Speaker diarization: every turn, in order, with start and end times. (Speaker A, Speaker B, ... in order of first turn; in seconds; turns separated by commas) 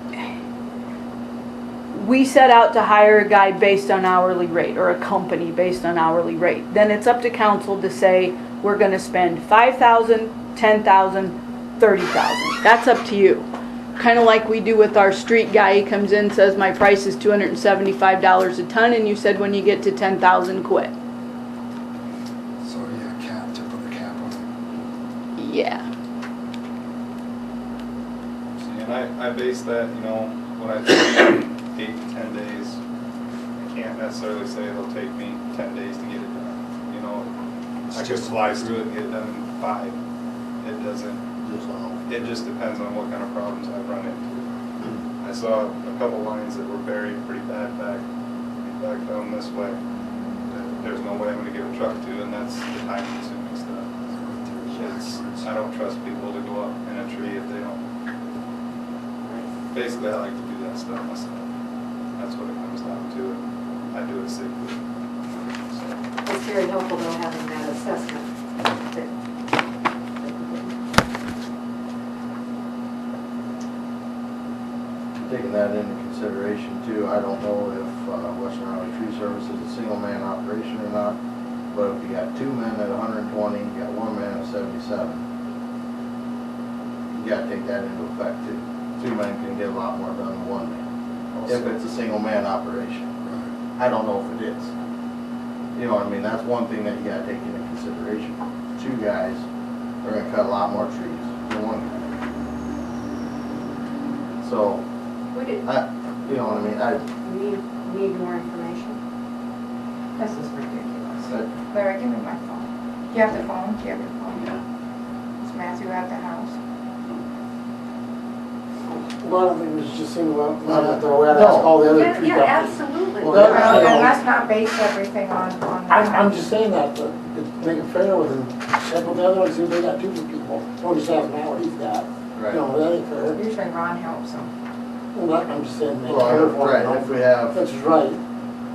Speaker A: 1.9-13.4, Speaker A: 14.0-20.9, Speaker B: 22.6-24.4, Speaker A: 25.4-25.9, Speaker C: 28.6-32.8, Speaker C: 33.6-37.3, Speaker C: 37.9-39.9, Speaker B: 37.9-38.6, Speaker C: 40.6-41.2, Speaker D: 41.4-42.4, Speaker C: 42.1-44.3, Speaker C: 45.2-48.0, Speaker C: 48.7-49.8, Speaker C: 50.5-53.9, Speaker B: 54.1-55.5, Speaker C: 54.7-57.8, Speaker E: 59.2-59.5, Speaker C: 59.7-61.5, Speaker C: 62.1-64.8, Speaker C: 65.4-66.0, Speaker E: 66.2-69.1, Speaker E: 70.2-70.8, Speaker D: 75.1-81.2, Speaker D: 81.7-85.2, Speaker D: 87.1-90.8, Speaker D: 91.5-93.2, Speaker D: 93.8-94.7, Speaker D: 95.8-99.4, Speaker D: 100.0-102.1, Speaker D: 104.4-104.8, Speaker E: 105.3-105.6, Speaker D: 105.6-107.0, Speaker E: 107.2-109.0, Speaker F: 110.2-114.6, Speaker F: 115.4-116.6, Speaker G: 119.2-124.2, Speaker D: 120.7-121.7, Speaker E: 121.9-123.7, Speaker F: 123.3-126.4, Speaker G: 125.9-133.4, Speaker D: 132.3-132.6, Speaker F: 133.3-134.5, Speaker G: 135.1-138.2, Speaker D: 136.1-137.6